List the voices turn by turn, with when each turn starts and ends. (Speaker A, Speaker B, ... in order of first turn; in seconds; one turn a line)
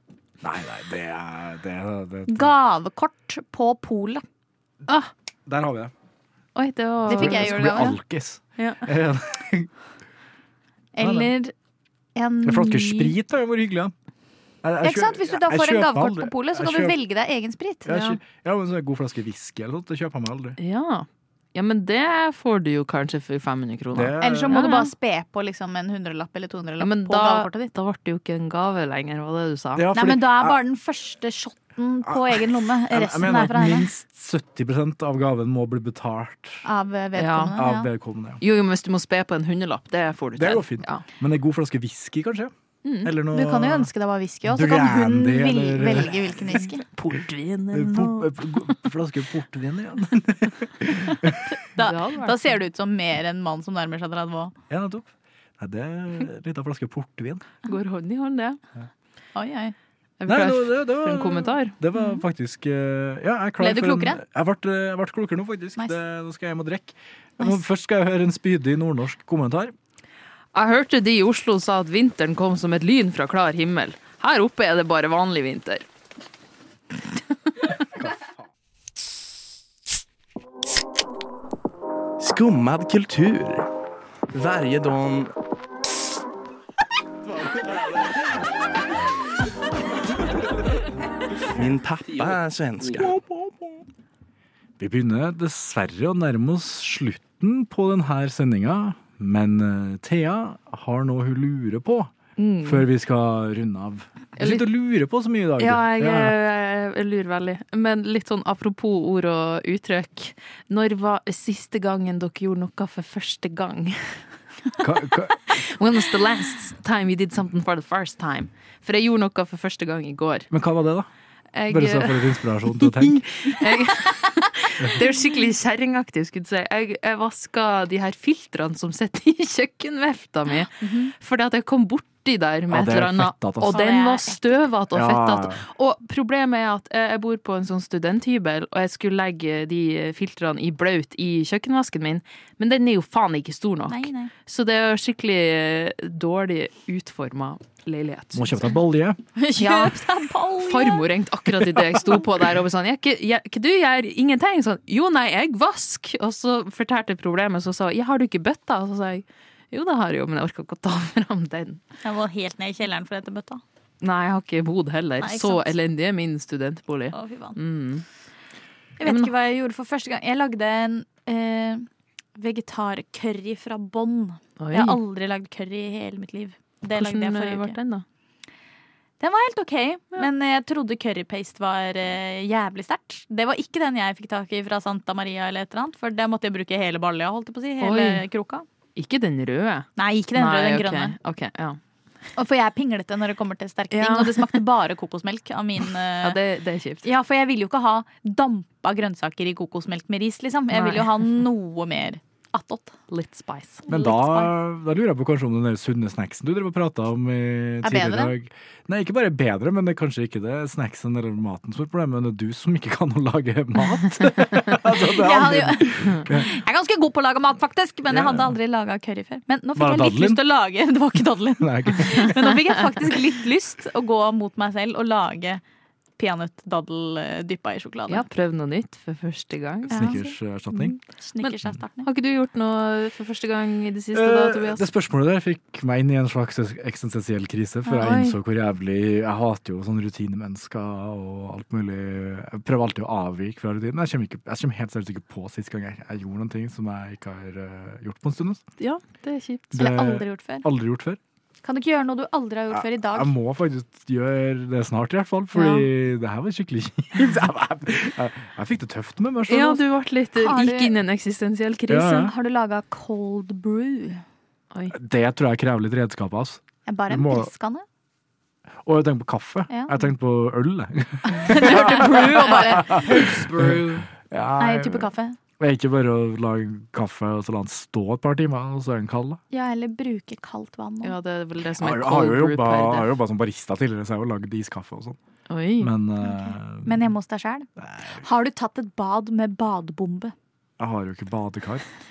Speaker A: 0.4-2.5
Speaker B: 2.3-4.2
Speaker A: 5.5-5.9
Speaker C: 6.5-8.0
Speaker B: 7.1-7.9
Speaker A: 7.1-9.7
Speaker B: 10.9-11.5
Speaker A: 11.0-11.3
Speaker B: 12.2-13.1
Speaker A: 12.4-13.9
Speaker A: 14.6-16.9
Speaker B: 14.8-18.2
Speaker A: 17.9-20.6
Speaker C: 20.6-24.9
Speaker A: 23.9-24.5
Speaker B: 24.2-27.7
Speaker C: 26.8-29.9
Speaker A: 29.8-30.6
Speaker B: 29.9-33.9
Speaker A: 32.0-36.6
Speaker B: 36.6-37.9
Speaker C: 37.1-37.5
Speaker A: 37.5-38.4
Speaker C: 38.4-41.0
Speaker A: 40.4-42.5
Speaker B: 42.9-46.8
Speaker A: 43.0-43.9
Speaker A: 44.4-46.4
Speaker C: 46.9-48.3
Speaker A: 47.7-51.4
Speaker B: 51.5-54.5
Speaker C: 51.8-52.5
Speaker A: 54.7-57.5
Speaker C: 57.6-58.6
Speaker B: 59.3-59.7
Speaker C: 60.2-61.8
Speaker A: 60.3-69.7
Speaker B: 62.0-62.2
Speaker B: 63.6-64.2
Speaker C: 70.5-75.8
Speaker D: 82.2-83.7
Speaker D: 84.3-85.3
Speaker D: 91.5-93.2
Speaker A: 94.8-106.3
Speaker C: 102.4-102.9
Speaker C: 104.4-104.7
Speaker C: 105.6-114.2
Speaker A: 114.8-115.5
Speaker C: 115.5-120.5
Speaker A: 120.5-121.1
Speaker C: 121.5-148.6
Speaker A: 121.7-123.2
Speaker B: 130.6-131.1
Speaker A: 132.7-133.8
Speaker B: 133.7-134.7
Speaker A: 134.9-135.6
Speaker B: 143.9-144.3
Speaker A: 148.3-149.2
Speaker B: 149.3-151.1
Speaker C: 149.6-150.0
Speaker C: 150.6-161.8
Speaker B: 162.0-163.6
Speaker C: 164.0-168.0
Speaker B: 165.2-165.7
Speaker B: 167.1-167.6
Speaker B: 169.0-177.8
Speaker C: 169.0-169.3
Speaker C: 174.6-175.0
Speaker C: 176.9-178.0
Speaker B: 179.2-188.6
Speaker C: 187.8-188.2
Speaker C: 188.9-191.8
Speaker B: 190.0-191.2
Speaker B: 192.3-196.4
Speaker C: 193.9-194.6
Speaker C: 196.2-197.1
Speaker B: 197.0-203.0
Speaker C: 200.7-201.4
Speaker C: 203.1-203.8
Speaker B: 203.9-204.5
Speaker A: 203.9-216.5
Speaker B: 207.8-208.3
Speaker B: 215.1-225.6
Speaker A: 218.1-218.5
Speaker A: 219.8-220.4
Speaker A: 221.6-222.4
Speaker B: 226.2-228.2
Speaker C: 228.1-230.2
Speaker B: 229.9-230.3
Speaker A: 229.9-230.9
Speaker C: 230.7-234.9
Speaker B: 231.1-232.1
Speaker A: 234.1-248.6
Speaker C: 248.8-249.8
Speaker B: 249.7-250.6
Speaker A: 249.7-251.2
Speaker B: 251.6-253.3
Speaker A: 252.7-259.8
Speaker C: 259.5-262.3
Speaker B: 260.3-260.9
Speaker A: 261.9-262.3
Speaker B: 262.1-264.2
Speaker A: 264.9-267.5
Speaker B: 266.9-267.8
Speaker A: 268.8-279.4
Speaker B: 269.7-269.9
Speaker B: 271.3-273.5
Speaker C: 271.4-274.0
Speaker B: 274.6-275.4
Speaker B: 279.5-281.1
Speaker C: 281.0-283.1
Speaker A: 281.8-285.2
Speaker C: 285.5-285.9
Speaker A: 285.8-287.1
Speaker B: 286.2-287.7
Speaker A: 287.8-288.2
Speaker B: 288.2-290.3
Speaker A: 290.8-291.8